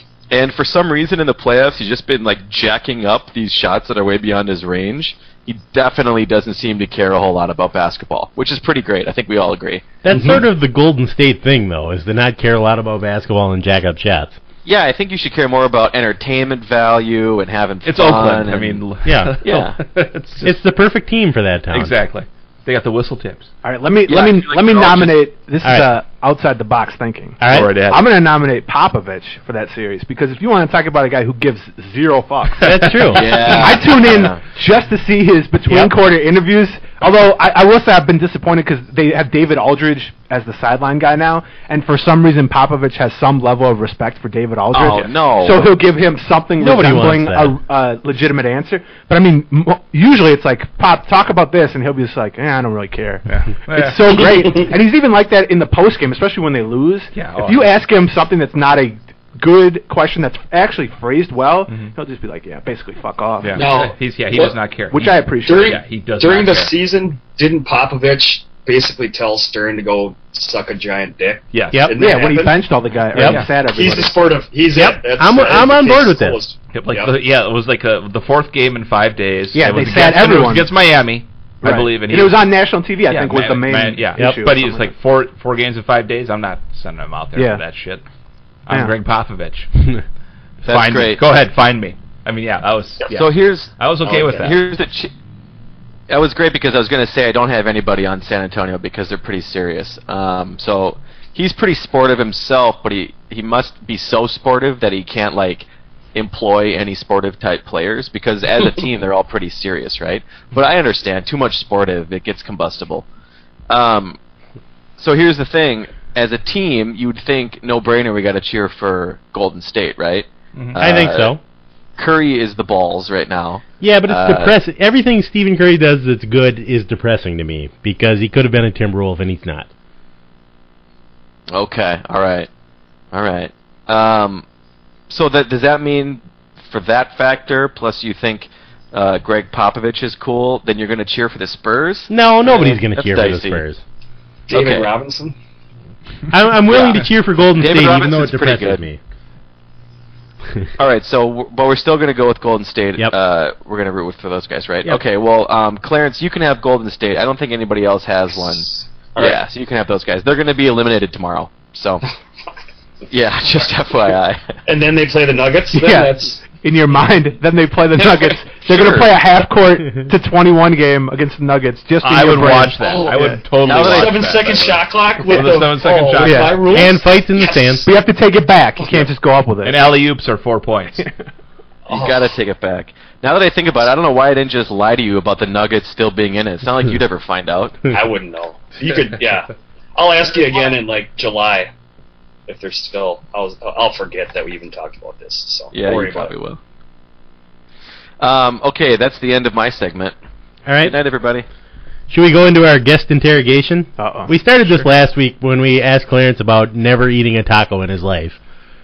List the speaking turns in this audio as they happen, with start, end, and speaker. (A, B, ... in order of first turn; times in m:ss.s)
0:00.3-0:10.4 A
0:10.0-0:14.4 B
0:14.6-0:18.8 A
0:17.9-0:20.6 C
0:19.0-0:19.4 B
0:19.4-0:19.8 A
0:20.4-0:22.0 B
0:21.7-0:23.5 C
0:23.6-1:03.6 D
0:24.1-0:25.2 A
0:25.6-0:26.0 B
0:27.4-0:27.7 B
0:27.5-0:28.1 C
0:32.6-0:33.6 B
0:33.1-0:34.4 A
0:44.7-0:45.7 A
0:46.6-0:47.6 B
0:53.3-0:54.6 C
0:57.2-0:57.8 C
1:01.7-1:01.9 C
1:03.4-1:06.8 C
1:03.6-1:04.6 E
1:04.9-1:05.8 D
1:05.5-1:12.7 E
1:11.5-1:11.9 C
1:12.0-1:14.3 D
1:13.1-1:13.4 B
1:13.2-1:13.5 C
1:13.6-1:17.2 E
1:14.7-1:16.4 B
1:16.7-1:22.5 C
1:19.5-1:20.7 D
1:21.6-1:24.9 D
1:23.1-1:28.0 C
1:24.2-1:24.4 B
1:27.4-1:27.6 D
1:28.7-1:29.9 C
1:30.6-1:31.2 A
1:30.7-1:34.6 C
1:33.1-1:35.1 A
1:34.1-1:34.4 E
1:36.1-1:53.1 A
1:53.7-1:54.2 A
1:55.0-2:01.4 A
2:00.8-2:01.4 B
2:02.0-2:04.6 A
2:03.8-2:09.7 B
2:11.5-2:12.5 A
2:13.1-2:14.4 A
2:15.1-2:23.6 A
2:22.1-2:23.8 B
2:24.5-2:25.4 E
2:24.5-2:24.9 A
2:26.3-2:29.0 B
2:26.7-2:27.0 A
2:27.6-2:28.8 A
2:30.8-2:42.0 A
2:38.5-2:39.4 E
2:43.1-2:44.5 A
2:44.7-2:46.4 E
2:45.7-2:53.4 D
2:48.7-2:49.1 A
2:52.0-2:56.8 C
2:52.8-2:57.9 E
2:53.6-2:54.5 A
2:56.2-2:56.6 D
2:56.7-2:57.9 B
2:57.8-2:59.9 D
2:59.6-3:01.1 C
3:01.9-3:07.8 A
3:01.9-3:02.3 E
3:07.9-3:11.7 E
3:12.5-3:16.3 E
3:15.7-3:16.6 A
3:18.2-3:20.2 A
3:20.7-3:21.0 B
3:20.8-3:21.5 A
3:22.1-3:28.4 B
3:24.0-3:24.4 D